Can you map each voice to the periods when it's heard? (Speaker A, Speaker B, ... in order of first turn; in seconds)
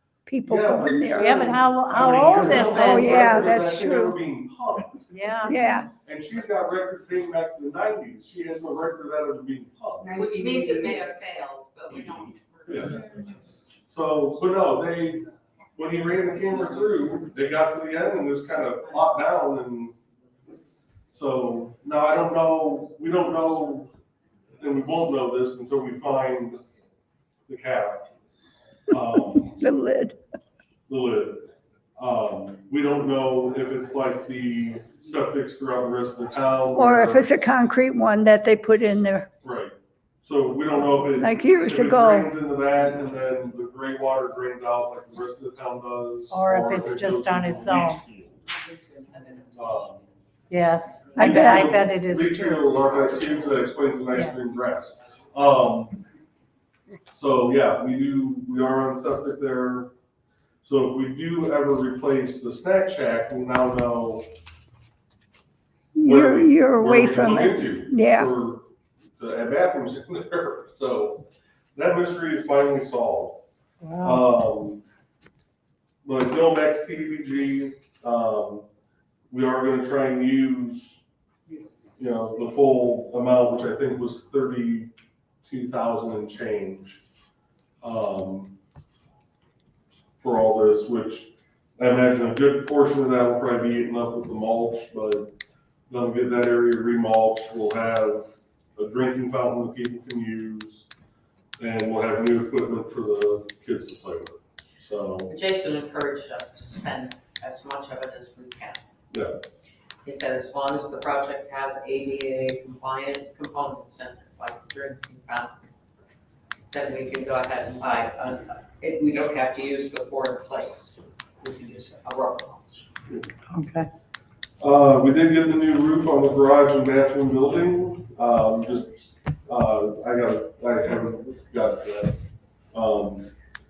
Speaker A: 0.3-1.5, 2.4-4.2, 5.4-5.9, 29.5-30.2, 36.7-39.3, 41.2-42.3, 51.1-51.8, 66.0-68.3
Speaker B: 0.5-5.5, 6.0-10.1, 12.7-13.0, 13.9-19.9, 21.1-23.9, 24.6-26.6, 27.5-28.1, 28.9-29.6, 30.9-37.3, 39.4-48.4, 49.5-50.0, 51.1-56.0, 57.1-59.9, 60.6-64.3, 66.0-68.7, 69.2-71.2, 71.8-73.4, 74.0-74.8, 76.0-78.7, 79.3-81.0, 82.0-84.9, 85.4-87.0, 87.8-88.6, 90.2-95.3, 95.9-98.3, 98.8-100.9, 101.6-105.3, 124.6-128.9, 129.5-132.2, 132.7-133.3
Speaker C: 1.2-3.3, 5.1-5.9, 10.1-11.0, 46.3-48.0, 50.5-52.6
Speaker D: 10.2-13.3, 105.3-108.8, 110.0-115.6, 116.7-122.8